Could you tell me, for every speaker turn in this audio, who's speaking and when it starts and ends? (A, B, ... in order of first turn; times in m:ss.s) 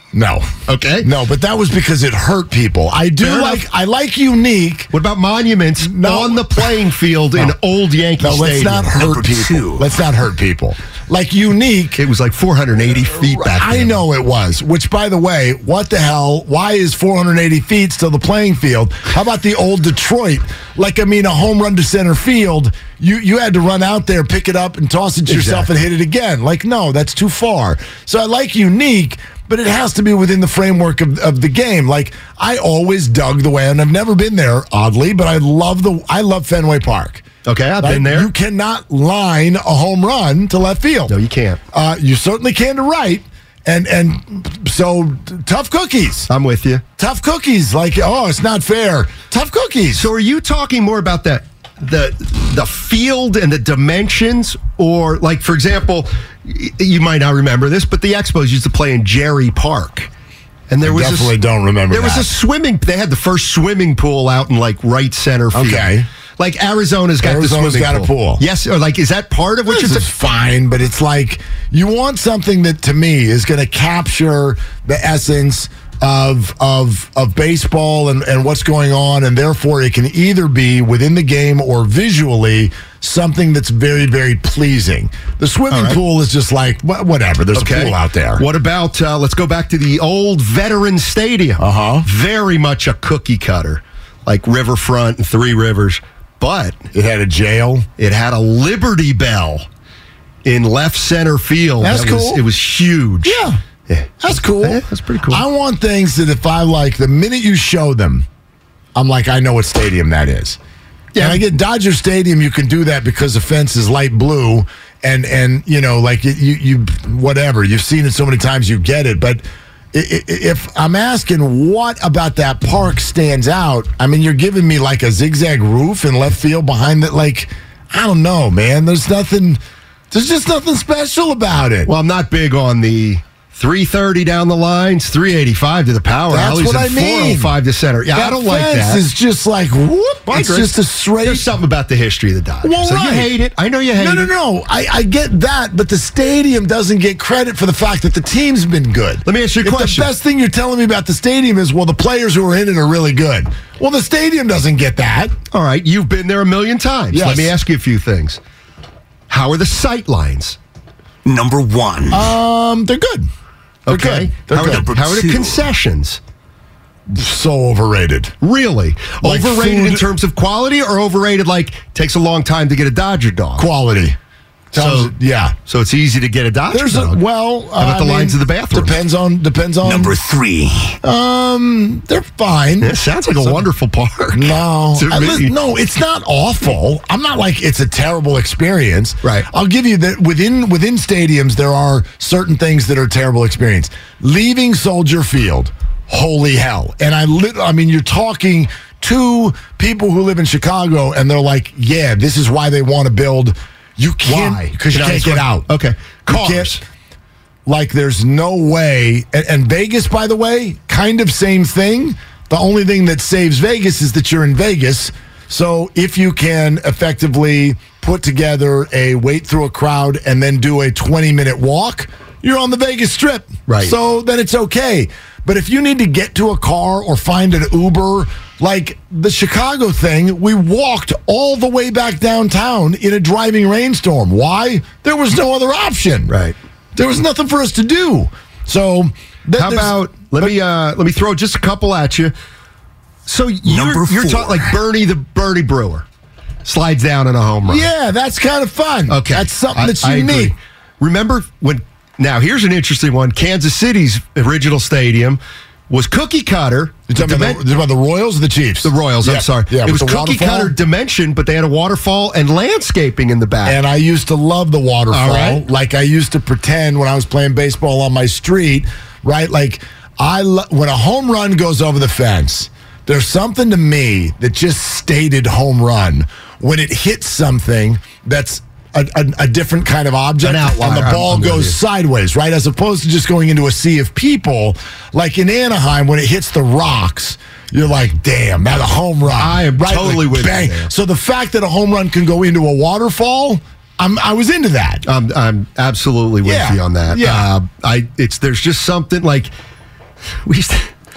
0:00.1-0:04.9 A
0:00.7-0:01.1 B
0:03.2-0:03.6 B
0:04.9-0:09.0 B
0:05.8-0:06.8 A
0:08.2-0:12.0 A
0:08.9-0:09.8 C
0:12.0-0:14.0 B
0:13.1-0:37.2 A
0:25.3-0:25.7 B
0:37.4-0:38.3 B
0:37.8-0:41.1 A
0:41.1-0:41.6 B
0:41.7-0:46.3 A
0:46.3-0:46.8 B
0:47.0-0:50.1 A
0:49.9-1:00.1 B
1:00.7-1:01.3 B
1:00.8-1:02.3 A
1:01.9-1:10.1 B
1:05.5-1:06.1 A
1:07.2-1:08.4 A
1:09.6-1:28.4 A
1:25.7-1:26.0 B
1:27.5-1:36.8 B
1:31.6-1:32.1 A
1:36.9-1:37.9 A
1:38.0-1:39.6 B
1:40.4-1:45.4 B
1:41.8-1:42.4 A
1:43.2-1:43.6 A
1:44.2-1:48.2 A
1:48.9-1:50.6 A
1:51.1-1:51.4 B
1:51.2-2:11.9 A
2:11.8-2:19.0 B
2:16.3-2:17.6 A
2:18.1-2:21.5 A
2:20.3-2:24.3 B
2:22.6-2:23.3 A
2:24.0-2:35.3 A
2:29.2-2:30.1 B
2:35.5-2:38.4 B
2:37.1-2:37.5 A
2:39.3-2:40.6 B
2:41.2-2:42.3 C
2:42.1-2:43.3 A
2:43.8-2:46.2 B
2:43.9-2:44.9 A
2:44.6-2:45.7 C
2:47.1-2:48.3 A
2:48.4-2:53.7 B
2:49.2-2:50.1 A
2:53.6-2:54.2 A
2:54.7-2:55.6 A
2:54.7-2:55.1 B
2:55.6-2:57.2 B
2:56.7-3:00.2 A
2:57.8-2:59.0 B
2:59.8-3:01.0 C
3:01.0-3:03.7 A
3:02.8-3:05.5 B
3:04.3-3:25.7 A
3:24.2-3:26.8 B
3:26.3-3:26.8 A
3:27.6-3:56.3 A
3:43.7-3:43.9 B
3:56.3-3:56.6 B
3:56.9-4:00.5 A
3:59.6-4:02.3 B
4:03.3-4:06.0 B
4:03.6-4:04.8 C
4:06.6-4:07.9 B
4:07.6-4:10.5 A
4:09.1-4:17.6 B
4:17.1-4:20.8 A
4:18.8-4:23.8 B
4:23.6-4:55.0 A
4:25.1-4:25.6 B
4:40.4-4:41.8 B
4:49.3-4:50.9 B
4:55.0-4:59.5 B
4:56.4-4:57.5 A
5:00.4-5:00.9 B